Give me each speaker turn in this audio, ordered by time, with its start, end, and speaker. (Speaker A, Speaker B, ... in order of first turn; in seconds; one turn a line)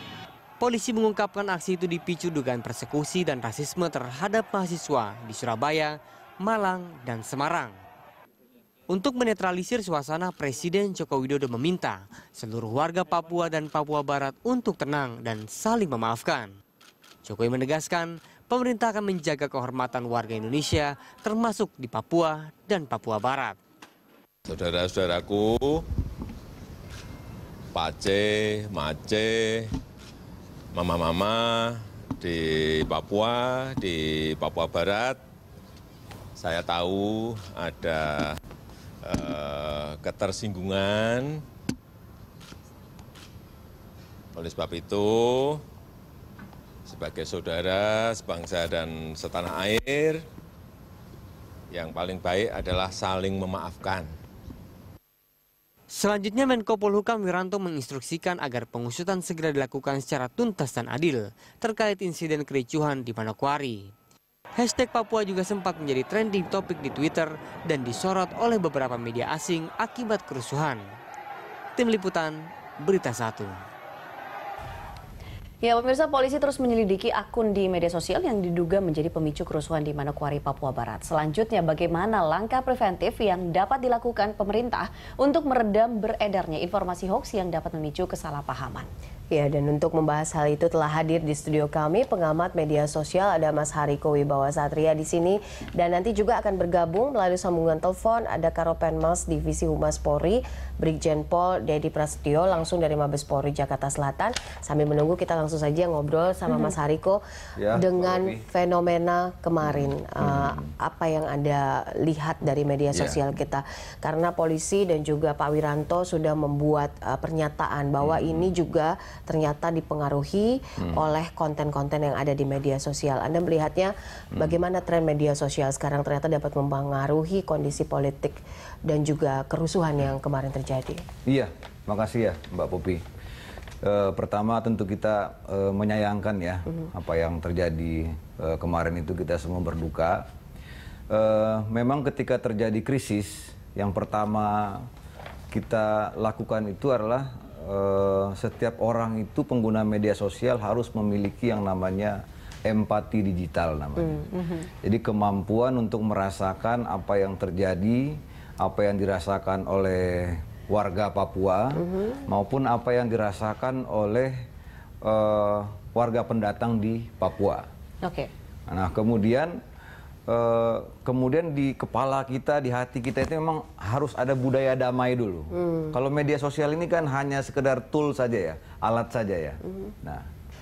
Speaker A: 0.6-7.8
Speaker A: 8.9-16.5
Speaker A: 17.2-23.6
Speaker B: 24.4-25.8
Speaker B: 27.7-29.7
Speaker B: 30.7-35.2
Speaker B: 36.4-38.4
Speaker B: 39.0-41.4
Speaker B: 44.3-45.6
Speaker B: 46.9-50.2
Speaker B: 51.7-54.1
Speaker A: 55.9-63.9
Speaker A: 64.6-70.8
Speaker A: 71.8-73.5
Speaker C: 75.6-88.9
Speaker D: 89.3-107.2
Speaker E: 107.6-108.4
Speaker D: 107.7-131.0
Speaker E: 109.6-110.7
Speaker E: 112.9-113.2
Speaker E: 118.0-118.5
Speaker E: 120.8-121.0
Speaker E: 131.2-133.0
Speaker E: 133.8-140.2
Speaker E: 141.1-144.9
Speaker E: 145.5-154.3
Speaker C: 154.3-154.7
Speaker E: 154.8-164.4
Speaker D: 161.9-162.2
Speaker E: 165.0-167.7
Speaker C: 168.0-168.3
Speaker E: 168.7-169.6
Speaker E: 170.3-180.2
Speaker D: 175.6-175.9